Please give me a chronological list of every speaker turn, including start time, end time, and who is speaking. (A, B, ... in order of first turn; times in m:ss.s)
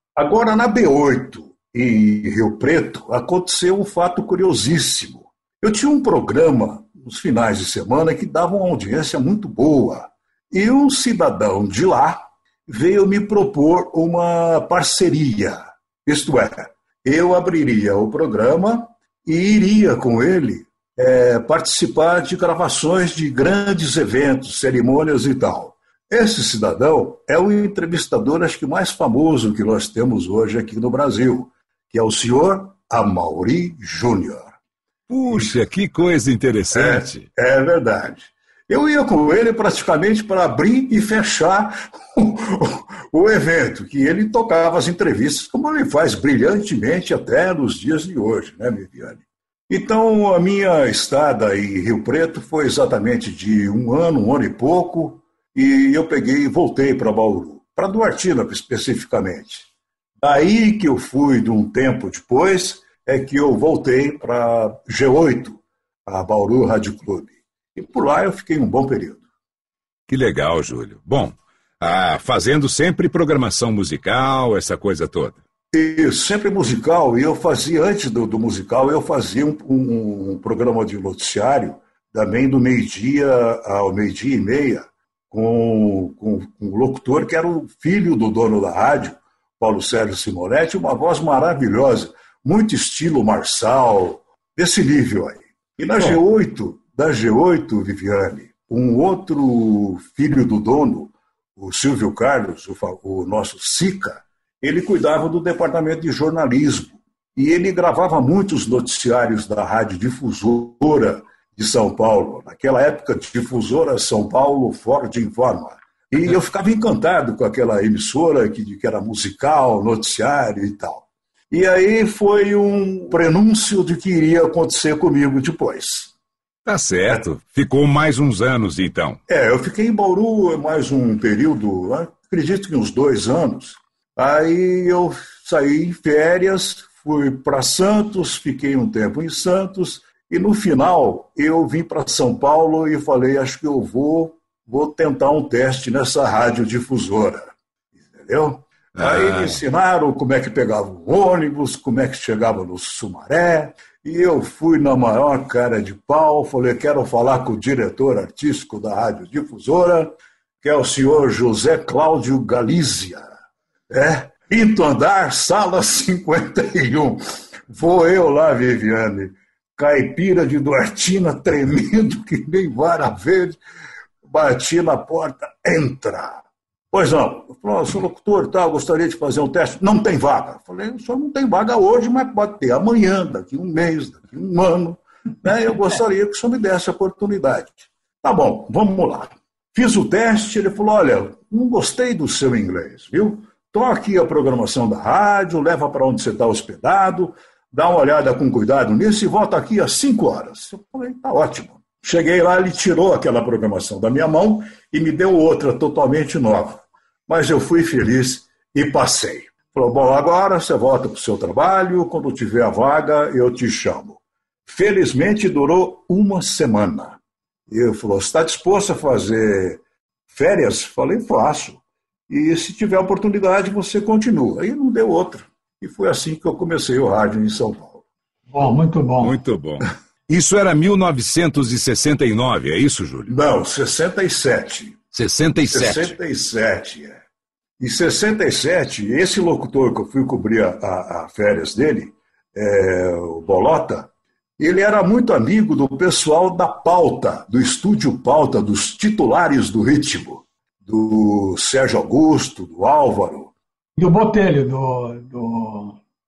0:00.1-0:34.5 A
0:35.1-0:37.3 B
0:35.3-0:35.6 A
0:36.7-0:59.7 A
1:00.2-1:09.2 A
1:10.1-1:15.4 B
1:15.7-2:06.1 A
2:06.6-2:09.2 B
2:09.3-2:27.5 A
2:28.1-2:43.3 A
2:28.9-2:29.6 B
2:43.9-2:53.6 A
2:54.3-3:48.0 A
3:48.5-3:49.4 C
3:49.2-3:53.3 B
3:53.3-3:55.0 A
3:55.1-3:56.1 B
3:55.7-3:57.2 A
3:57.8-4:13.5 A
4:14.0-4:16.0 C